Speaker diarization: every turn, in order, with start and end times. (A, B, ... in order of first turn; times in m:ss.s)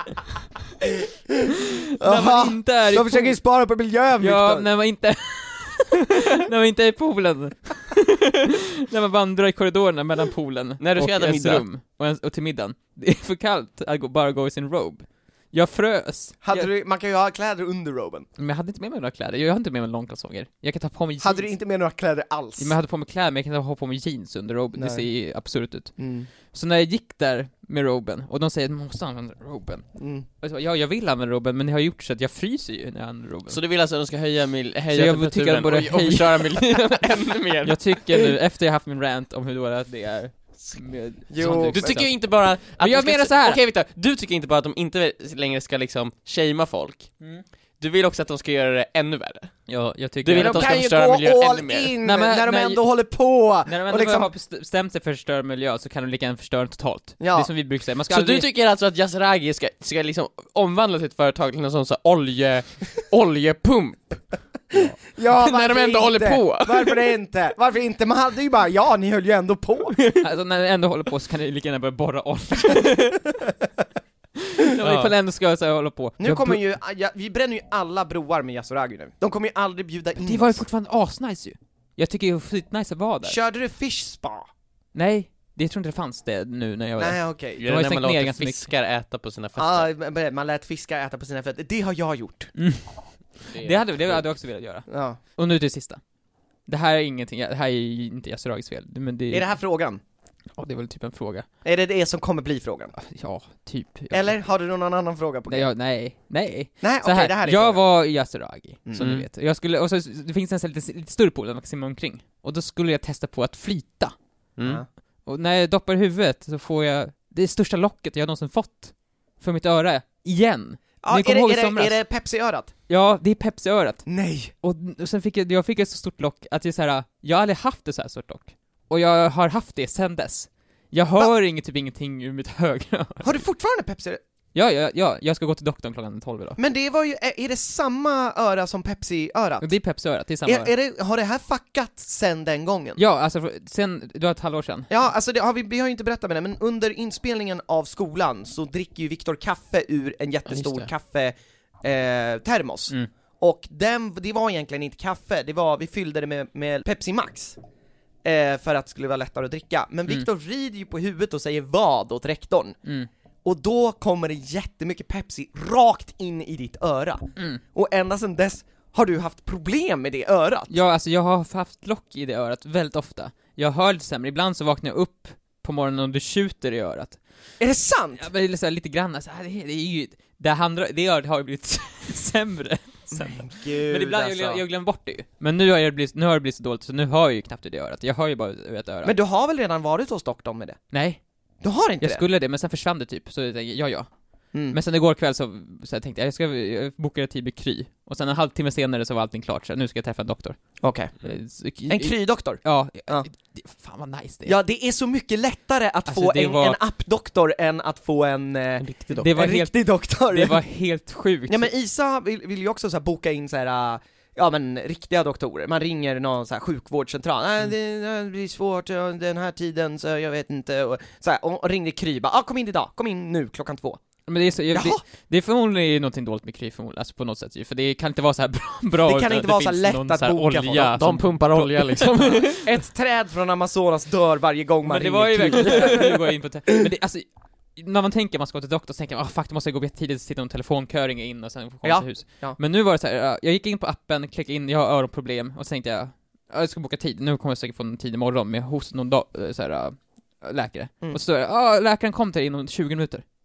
0:02.0-0:04.7 A
0:02.0-0:03.4 B
0:04.2-0:16.7 B
0:10.8-0:11.6 C
0:16.4-0:18.3 A
0:18.4-0:21.5 B
0:21.2-0:22.7 A
0:22.6-0:25.9 B
0:24.8-0:25.1 A
0:26.0-0:26.3 A
0:26.5-0:29.9 B
0:30.0-0:30.3 A
0:30.4-0:33.6 B
0:33.5-0:38.3 C
0:34.9-0:36.9 B
0:37.6-0:43.6 B
0:41.3-0:42.0 A
0:41.4-0:52.0 C
0:49.7-0:50.8 B
0:50.3-0:54.3 A
0:52.0-0:52.8 B
0:53.6-0:58.5 B
0:57.2-0:57.5 A
0:58.1-1:04.3 C
1:04.7-1:10.0 A
1:05.2-1:07.1 C
1:10.2-1:13.3 B
1:14.5-1:16.6 B
1:14.8-1:15.1 C
1:16.2-1:20.6 A
1:20.2-1:23.4 B
1:23.2-1:24.5 A
1:24.9-1:28.7 B
1:27.0-1:27.6 A
1:27.6-1:29.9 C
1:29.6-1:32.5 A
1:32.6-1:36.0 B
1:33.4-1:34.2 C
1:34.9-1:35.2 A
1:36.7-1:39.5 B
1:39.3-1:40.0 A
1:40.6-1:41.5 B
1:41.6-1:42.9 A
1:43.0-1:44.3 B
1:44.1-1:45.7 A
1:45.5-1:54.2 B
1:46.8-1:47.8 A
1:49.0-1:49.3 C
1:54.6-1:54.8 C
1:55.2-2:02.0 B
2:01.0-2:02.7 A
2:02.9-2:04.1 B
2:04.1-2:04.5 A
2:04.6-2:13.4 B
2:13.2-2:14.2 A
2:14.5-2:16.6 B
2:16.6-2:19.7 A
2:19.6-2:20.7 B
2:20.4-2:23.0 A
2:23.0-2:24.9 B
2:24.9-2:37.6 A
2:30.5-2:30.9 C
2:38.2-2:42.8 A
2:43.4-2:50.7 A
2:50.7-2:57.2 B
2:57.6-2:58.3 A
2:58.2-3:09.1 B
3:03.1-3:04.6 A
3:09.0-3:10.8 A
3:10.9-3:11.2 B
3:11.6-3:12.2 A
3:12.0-3:14.1 B
3:14.5-3:14.8 A
3:14.7-3:24.6 B
3:20.8-3:21.1 A
3:21.9-3:23.3 A
3:24.5-3:30.6 A
3:26.1-3:26.8 B
3:28.8-3:29.3 C
3:29.2-3:31.7 B
3:31.5-3:44.0 A
3:44.3-3:52.6 B
3:44.7-3:45.0 A
3:49.0-3:51.0 A
3:50.8-3:52.6 C
3:52.6-3:56.2 A
3:54.8-4:13.2 B
4:01.8-4:02.6 A